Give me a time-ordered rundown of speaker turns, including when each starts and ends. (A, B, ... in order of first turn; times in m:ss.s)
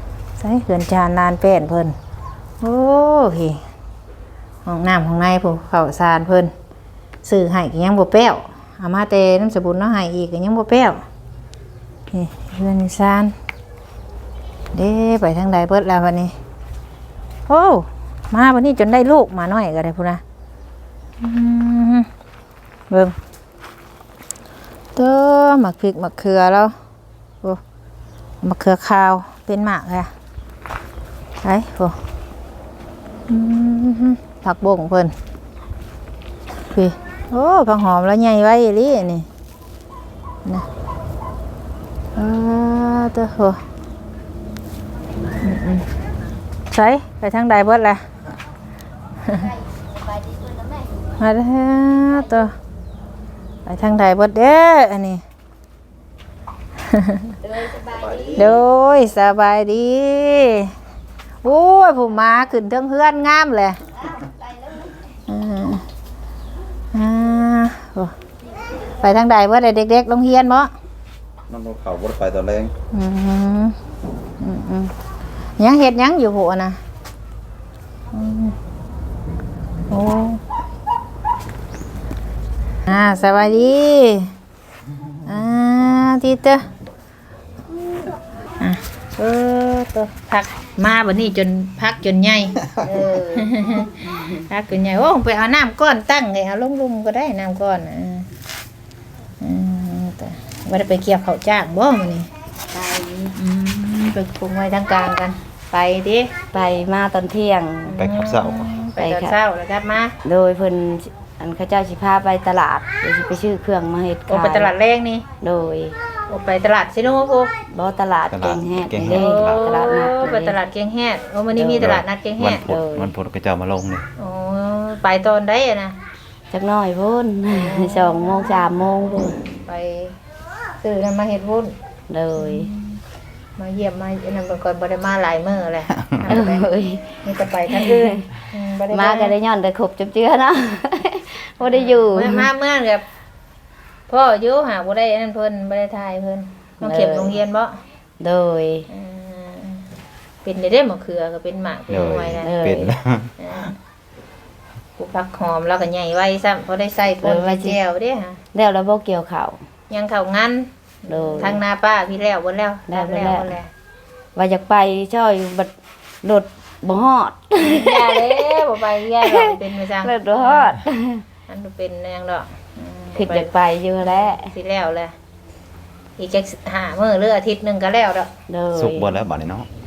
0:00.4-0:02.0 A
0:02.6-0:03.6 A
0:04.6-0:06.5 A
0:07.2-0:11.0 A
0:12.1-0:13.3 A
0:14.7-0:16.3 A
0:17.5-0:20.2 A
0:21.2-0:22.1 A
0:22.9-0:23.1 A
0:25.0-0:26.7 A
0:28.4-0:30.1 A
0:31.4-0:32.0 A
0:33.3-0:35.1 A
0:36.7-0:39.3 A
0:42.2-0:43.6 A
0:45.4-0:45.8 A
0:46.7-0:48.0 A
0:51.2-0:52.5 A
0:53.6-0:55.2 A
0:56.9-0:57.3 A
0:58.3-1:00.7 A
1:01.4-1:03.8 A
1:05.3-1:05.8 A
1:06.9-1:08.1 A
1:09.0-1:10.7 A
1:11.5-1:12.7 B
1:12.9-1:13.8 A
1:14.4-1:14.9 A
1:15.6-1:16.8 A
1:18.1-1:18.5 A
1:19.9-1:20.4 A
1:22.9-1:24.3 A
1:25.2-1:26.6 A
1:28.6-1:32.7 A
1:32.8-1:34.1 C
1:33.3-1:38.3 A
1:39.4-1:42.3 A
1:42.7-1:43.3 C
1:43.4-1:46.3 A
1:46.5-1:48.0 C
1:47.9-1:50.2 A
1:48.0-1:48.7 B
1:49.0-1:49.4 C
1:50.2-1:54.7 C
1:54.3-1:55.2 A
1:55.4-1:55.9 C
1:56.3-1:57.5 A
1:57.7-2:00.6 C
1:58.3-1:59.6 B
1:59.0-2:02.6 A
2:01.5-2:01.9 C
2:01.8-2:04.0 B
2:02.6-2:03.1 C
2:04.2-2:06.0 A
2:06.5-2:09.4 C
2:07.5-2:08.7 A
2:09.6-2:10.2 A
2:10.8-2:11.7 A
2:12.1-2:12.7 C
2:12.4-2:13.0 A
2:13.6-2:16.7 A
2:16.3-2:17.1 C
2:17.2-2:19.3 A
2:17.7-2:18.2 C
2:18.9-2:22.5 C
2:21.6-2:23.0 A
2:24.1-2:27.8 A
2:26.8-2:27.4 C
2:28.2-2:28.9 C
2:28.9-2:29.8 A
2:30.4-2:32.5 A
2:31.9-2:33.3 B
2:32.4-2:32.9 C
2:33.4-2:33.8 A
2:35.0-2:38.4 A
2:37.2-2:37.8 C
2:38.5-2:39.6 C
2:39.9-2:43.7 A
2:41.1-2:41.6 C
2:42.9-2:43.5 C
2:44.3-2:45.7 C
2:46.2-2:51.2 C
2:47.6-2:50.8 A
2:51.5-2:55.1 A
2:53.1-2:54.5 C
2:56.2-2:58.3 A
2:58.5-2:59.1 C
2:58.7-2:59.7 B